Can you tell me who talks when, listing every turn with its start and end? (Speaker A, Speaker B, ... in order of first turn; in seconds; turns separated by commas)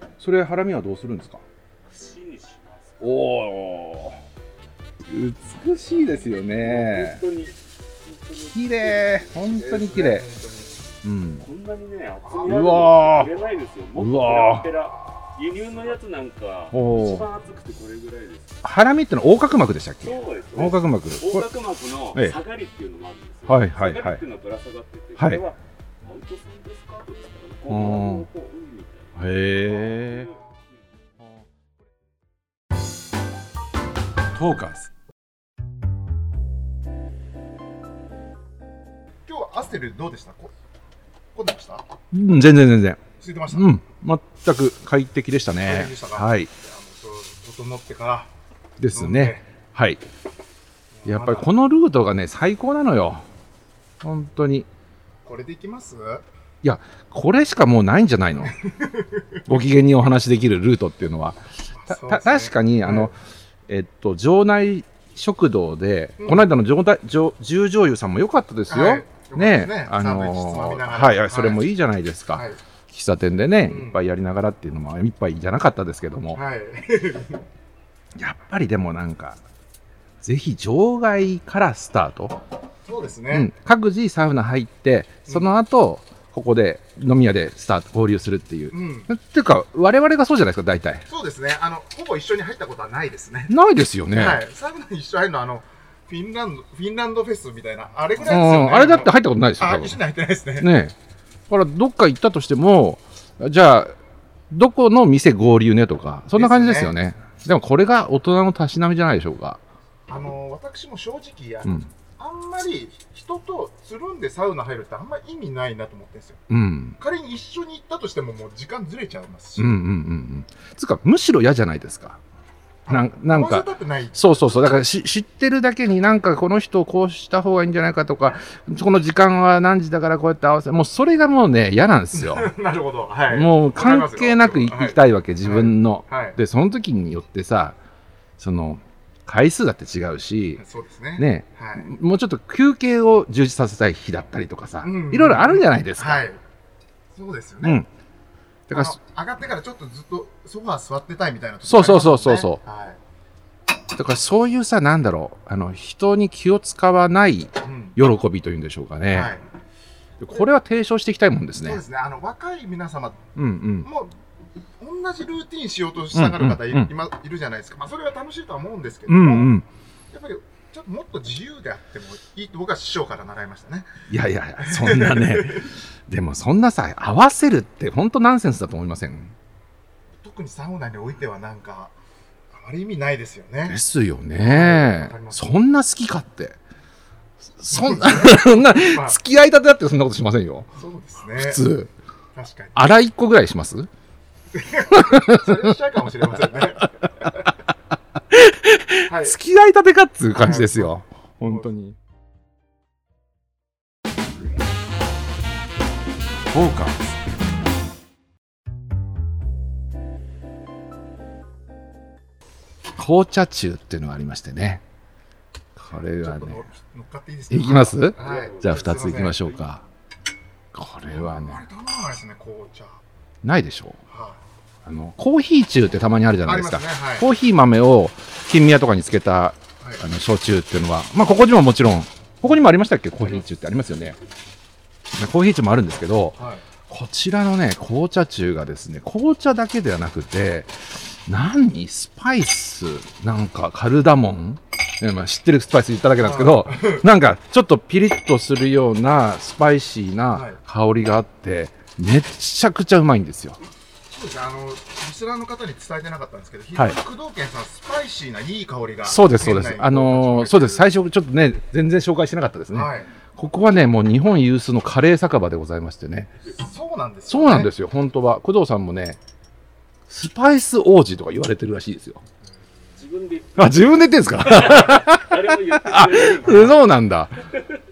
Speaker A: 0.2-1.4, Speaker B: 1.9-3.2, Speaker A: 3.0-4.2, Speaker A: 5.0-7.2, Speaker B: 6.2-10.0, Speaker A: 8.4-10.2, Speaker C: 9.5-10.8, Speaker A: 11.0-11.5, Speaker B: 11.4-18.6, Speaker C: 12.2-12.5, Speaker A: 12.4-13.3, Speaker A: 14.0-14.7, Speaker A: 16.7-17.3, Speaker A: 18.6-21.5, Speaker B: 20.0-30.5, Speaker A: 23.5-24.2, Speaker A: 25.2-25.4, Speaker A: 27.7-28.3, Speaker A: 29.2-30.3, Speaker C: 29.9-30.4, Speaker A: 34.4-34.9, Speaker C: 39.3-40.5, Speaker C: 41.4-41.8, Speaker A: 42.1-46.5, Speaker C: 43.2-43.7, Speaker C: 45.6-48.3, Speaker A: 48.8-50.0, Speaker C: 48.9-49.5, Speaker C: 51.0-51.5, Speaker A: 51.1-53.3, Speaker A: 54.0-54.7, Speaker C: 55.2-56.2, Speaker A: 56.6-58.6, Speaker C: 58.4-59.5, Speaker A: 59.5-63.2, Speaker C: 61.7-63.1, Speaker A: 63.7-76.4, Speaker C: 66.2-66.5, Speaker C: 68.7-71.6, Speaker C: 72.3-72.6, Speaker C: 73.7-74.0, Speaker C: 76.3-77.4, Speaker A: 78.2-79.4, Speaker A: 80.2-82.4, Speaker C: 82.9-83.5, Speaker A: 83.3-91.1, Speaker C: 85.3-85.5, Speaker C: 88.7-89.1, Speaker C: 91.1-93.5, Speaker A: 93.5-94.4, Speaker C: 94.1-100.7, Speaker A: 98.2-100.0, Speaker A: 100.6-101.0, Speaker A: 101.5-103.9, Speaker A: 104.5-109.6, Speaker C: 106.3-107.0, Speaker C: 110.1-116.4, Speaker A: 116.5-117.0, Speaker C: 117.0-119.8, Speaker A: 119.6-122.2, Speaker C: 122.9-124.3, Speaker A: 122.9-132.5, Speaker C: 132.1-136.4, Speaker A: 133.3-137.8, Speaker A: 138.4-140.6, Speaker C: 140.6-141.9, Speaker A: 141.2-146.2, Speaker C: 144.8-146.4, Speaker C: 147.2-147.8, Speaker A: 147.6-147.9, Speaker A: 148.7-149.0, Speaker C: 148.7-153.0, Speaker A: 151.7-152.6, Speaker A: 153.9-159.3, Speaker C: 157.6-158.0, Speaker C: 159.1-159.4, Speaker A: 160.2-161.8, Speaker C: 161.6-163.3, Speaker A: 163.3-163.9, Speaker C: 163.8-164.1, Speaker C: 164.8-169.6, Speaker A: 166.1-166.9, Speaker A: 169.1-169.7, Speaker C: 170.1-174.0, Speaker A: 174.1-179.3, Speaker C: 174.6-175.7, Speaker C: 180.2-181.9, Speaker C: 182.5-183.8, Speaker A: 183.7-186.6, Speaker C: 184.4-185.5, Speaker A: 187.6-190.7, Speaker C: 187.7-189.2, Speaker C: 190.8-191.6, Speaker A: 191.3-191.9, Speaker C: 192.3-192.9, Speaker A: 192.8-193.9, Speaker C: 194.5-197.5, Speaker A: 194.9-195.7, Speaker A: 198.3-202.0, Speaker C: 199.1-199.4, Speaker C: 200.3-201.7, Speaker A: 206.5-207.1, Speaker A: 213.0-214.8, Speaker A: 215.8-216.6, Speaker C: 215.9-219.6, Speaker A: 217.5-219.8, Speaker B: 218.2-219.2, Speaker A: 220.7-221.6, Speaker C: 221.1-223.0, Speaker A: 223.4-224.0, Speaker C: 224.1-224.4, Speaker A: 224.8-234.2, Speaker C: 226.4-227.3, Speaker A: 235.1-253.6, Speaker C: 236.4-236.7, Speaker C: 246.2-247.1, Speaker C: 250.3-250.6, Speaker C: 254.1-260.9, Speaker A: 259.1-266.3, Speaker C: 262.7-263.1, Speaker C: 266.6-267.7, Speaker A: 267.3-269.2, Speaker A: 270.1-272.2, Speaker B: 273.0-276.9, Speaker A: 273.6-277.5